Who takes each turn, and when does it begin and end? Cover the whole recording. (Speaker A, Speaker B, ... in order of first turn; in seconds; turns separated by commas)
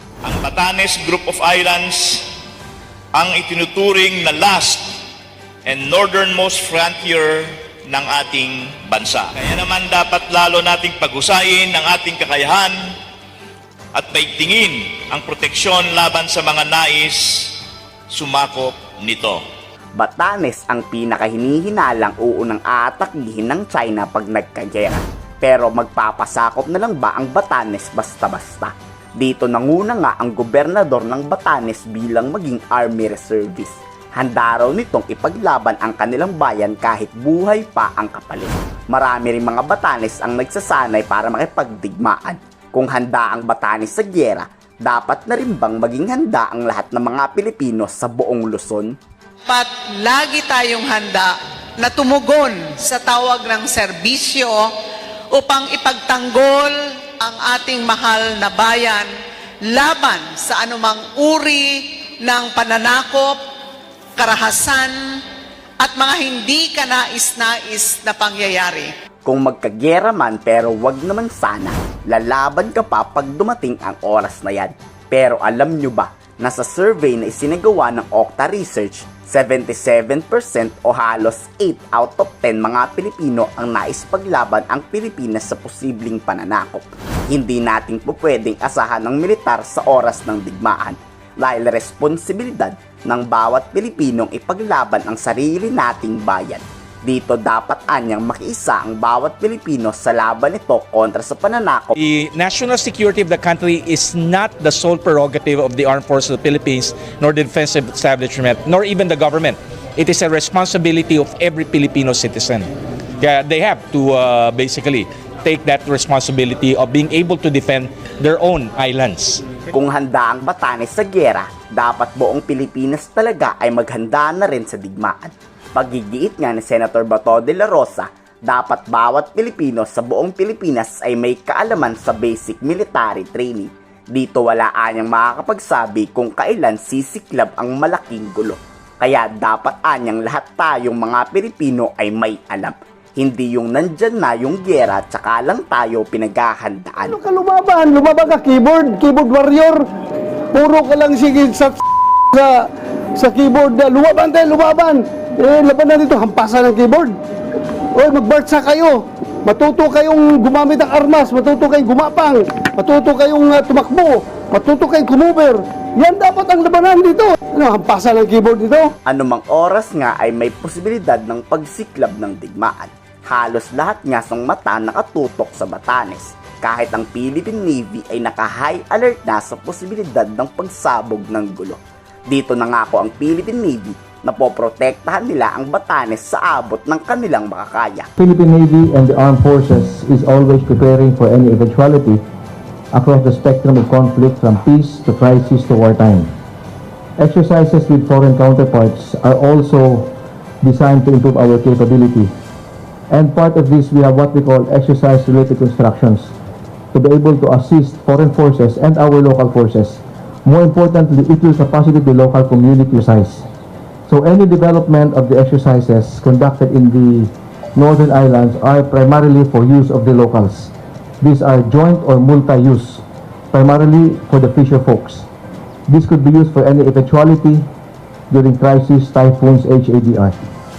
Speaker A: 0.2-2.2, Speaker A: 3.1-4.9, Speaker A: 5.6-12.8, Speaker A: 13.9-17.6, Speaker A: 18.1-19.4, Speaker B: 20.0-49.0, Speaker C: 49.5-54.7, Speaker C: 55.3-59.1, Speaker C: 59.6-63.4, Speaker C: 64.2-64.9, Speaker C: 65.8-68.9, Speaker B: 69.2-102.0, Speaker D: 102.0-112.7, Speaker D: 113.2-119.4, Speaker B: 119.7-147.2, Speaker E: 147.1-149.8, Speaker E: 150.5-151.8, Speaker E: 152.3-152.6, Speaker E: 153.2-157.2, Speaker E: 157.9-168.9, Speaker B: 169.1-188.1, Speaker F: 188.2-192.2, Speaker F: 192.9-196.3, Speaker F: 197.2-202.3, Speaker F: 203.1-206.3, Speaker F: 206.9-213.4, Speaker F: 214.1-225.3, Speaker F: 225.9-227.7, Speaker F: 228.3-230.4